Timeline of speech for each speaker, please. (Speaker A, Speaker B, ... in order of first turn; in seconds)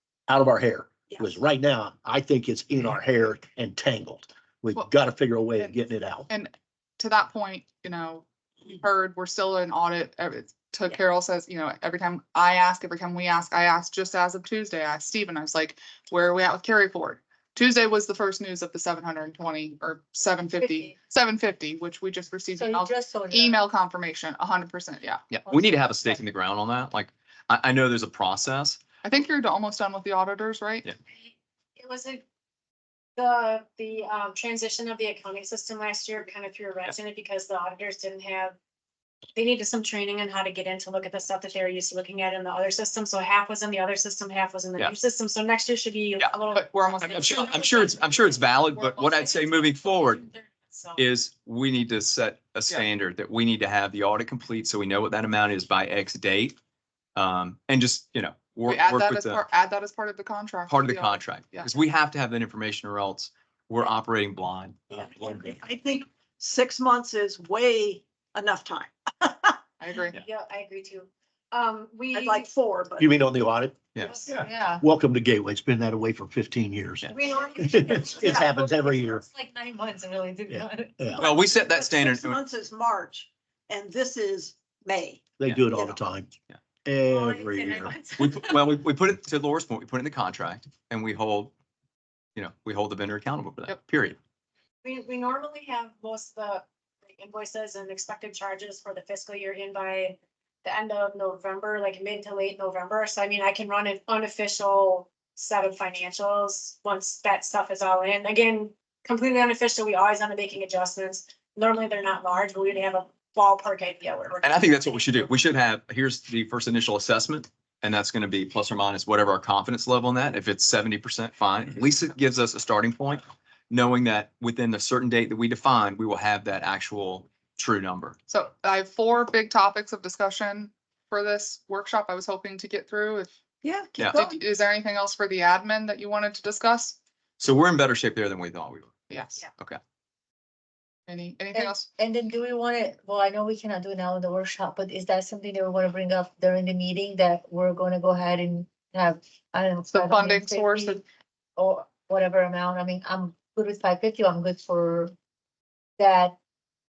Speaker A: 0.3-6.3, 73.0-73.8, 74.7-79.2, 80.5-81.3, 85.4-86.3, 86.8-88.0
Speaker B: 6.3-25.4, 29.0-30.9, 46.5-47.5, 58.7-61.7, 69.8-70.2, 128.3-133.3, 134.1-137.0, 139.1-139.4, 141.1-141.9, 149.9-151.0
Speaker C: 20.6-20.9, 22.5-23.6, 74.3-74.8, 77.2-81.3, 87.2-88.4, 141.5-151.0, 151.6-155.1, 156.0-156.4
Speaker D: 25.3-28.8, 47.0-50.3, 51.0-56.6, 57.2-59.4, 60.7-65.5, 81.2-82.4, 88.2-91.5, 92.4-94.2, 114.4-128.2, 137.4-138.9
Speaker E: 31.8-32.2, 33.2-38.6, 39.3-47.9, 70.2-72.4, 94.8-115.2
Speaker F: 65.0-69.6, 72.1-73.1, 77.2-78.4, 81.3-86.0, 133.6-134.4